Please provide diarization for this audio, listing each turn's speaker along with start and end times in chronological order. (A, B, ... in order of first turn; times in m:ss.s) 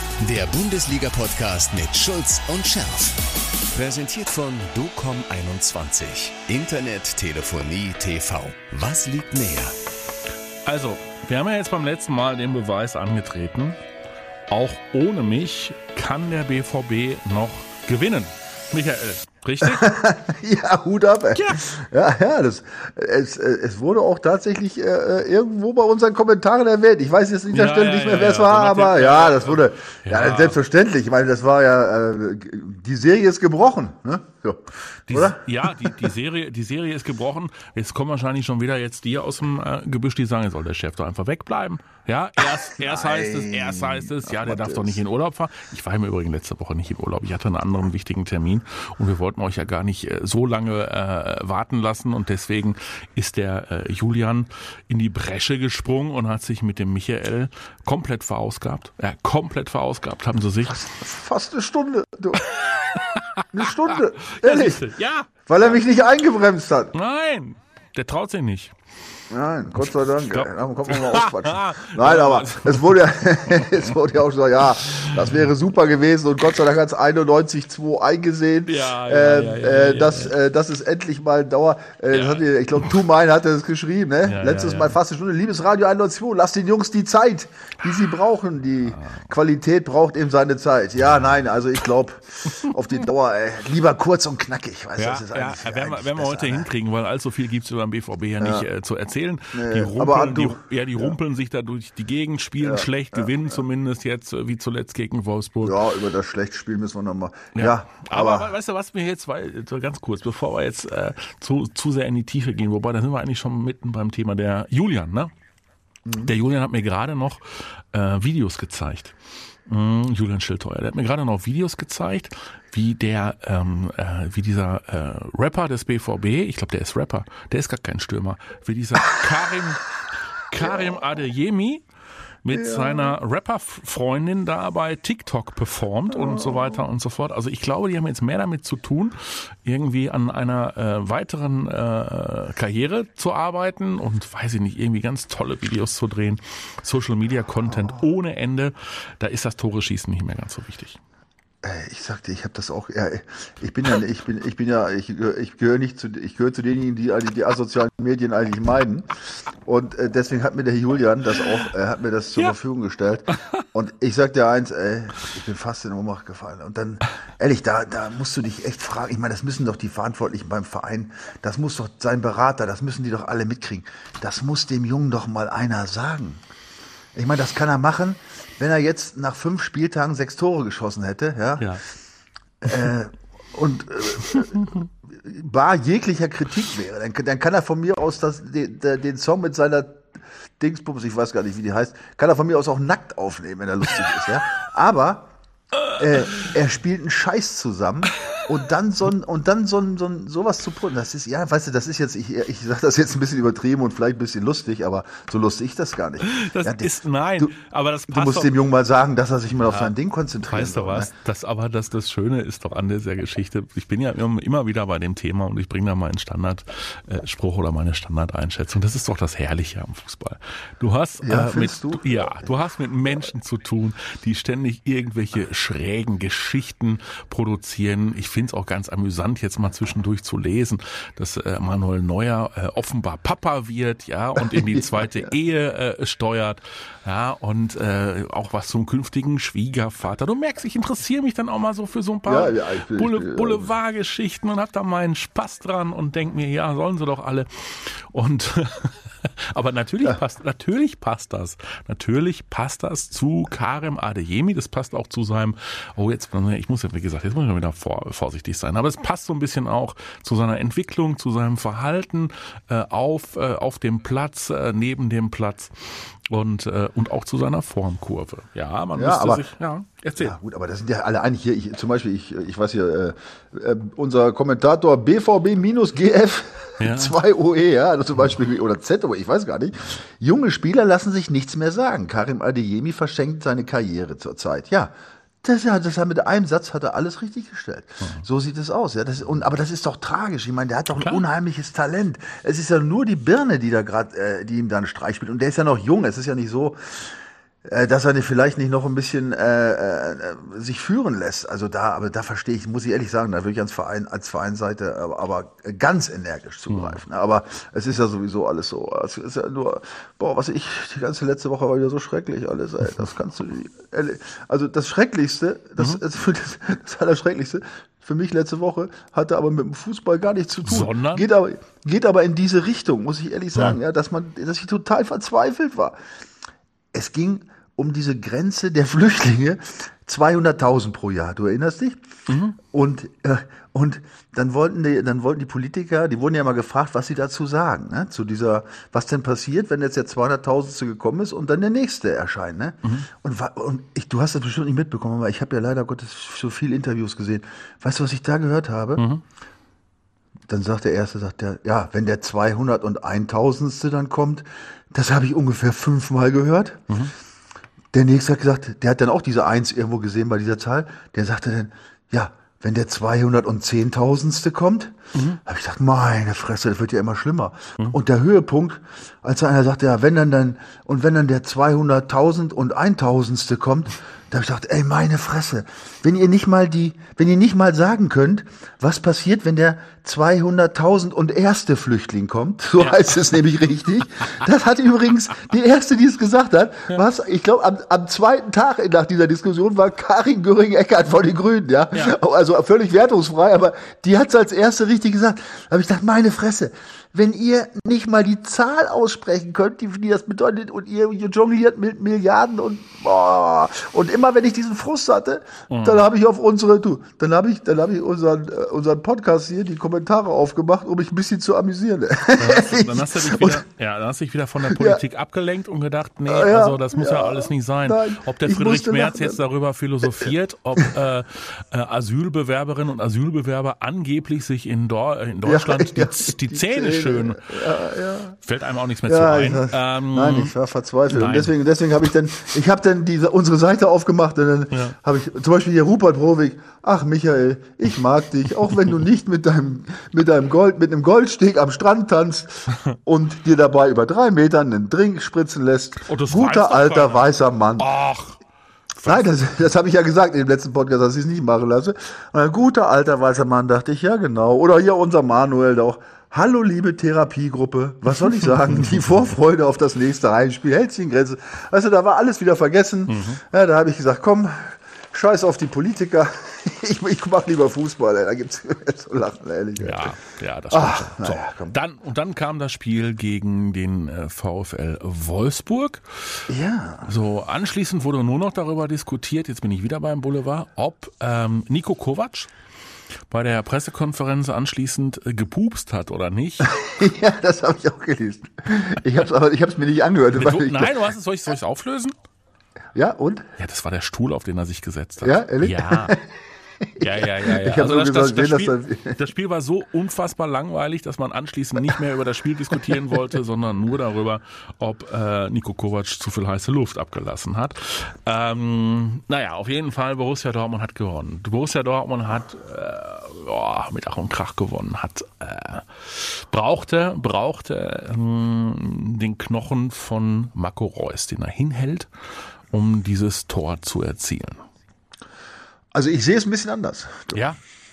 0:00.2-0:03.2 A
0:03.7-0:09.8 A
0:10.6-0:13.8 B
0:14.5-0:19.8 B
0:19.6-0:36.0 C
0:27.5-0:30.6 B
0:35.1-1:00.8 B
0:42.6-0:45.0 C
1:00.7-1:02.4 C
1:02.4-1:05.8 B
1:03.5-1:04.8 C
1:05.4-1:06.9 C
1:06.9-1:08.7 B
1:09.3-1:36.7 C
1:09.8-1:13.0 B
1:13.5-1:13.9 B
1:18.6-1:20.3 B
1:22.1-1:22.4 B
1:24.2-1:25.0 B
1:35.0-1:45.8 B
1:38.4-1:38.6 C
1:39.5-1:41.2 C
1:42.6-1:43.6 C
1:45.6-1:48.5 C
1:47.5-1:55.3 B
1:56.0-1:56.3 C
1:56.2-1:59.1 B
1:59.7-2:09.8 B
2:10.5-2:11.8 B
2:12.4-2:31.0 B
2:12.5-2:13.2 C
2:16.1-2:16.8 C
2:31.6-2:39.1 C
2:39.6-2:56.4 C
2:57.1-3:01.8 C
3:02.6-3:10.0 C
3:10.6-3:15.3 C
3:15.9-3:27.5 C
3:26.2-3:28.5 B
3:28.1-3:31.1 C
3:29.6-3:29.9 B
3:30.4-4:30.4 B
3:41.2-3:42.5 C
3:54.5-3:55.3 C
4:02.3-4:03.7 C
4:28.9-4:29.5 C
4:30.2-5:26.0 C
4:36.8-4:37.2 B
4:51.0-4:51.2 B
5:06.7-5:07.0 B
5:20.6-5:21.3 B
5:26.9-5:32.0 C
5:32.3-5:32.6 B
5:32.6-5:49.0 C
5:49.0-5:49.2 B
5:50.5-5:56.8 C
5:57.9-6:53.6 C
6:05.1-6:05.4 B
6:22.8-6:23.2 B
6:45.7-6:46.0 B
6:52.4-7:07.6 B
6:54.7-6:55.0 C
6:56.3-6:59.4 C
7:05.4-7:08.4 C
7:08.4-7:10.5 B
7:09.0-7:27.9 C
7:11.1-7:11.5 B
7:26.0-7:28.4 B
7:29.0-7:50.2 C
7:29.0-7:29.4 B
7:43.1-7:43.4 B
7:49.8-7:56.4 B
7:50.7-7:51.7 C
7:56.5-7:57.1 C
7:57.0-8:02.5 B
8:03.3-8:06.7 B
8:06.6-8:11.0 C
8:10.3-8:12.1 B
8:12.9-8:13.5 C
8:13.6-8:16.1 B
8:15.2-8:19.2 C
8:17.0-8:42.1 B
8:42.7-8:44.6 B
8:45.9-8:47.4 C
8:47.3-8:47.6 B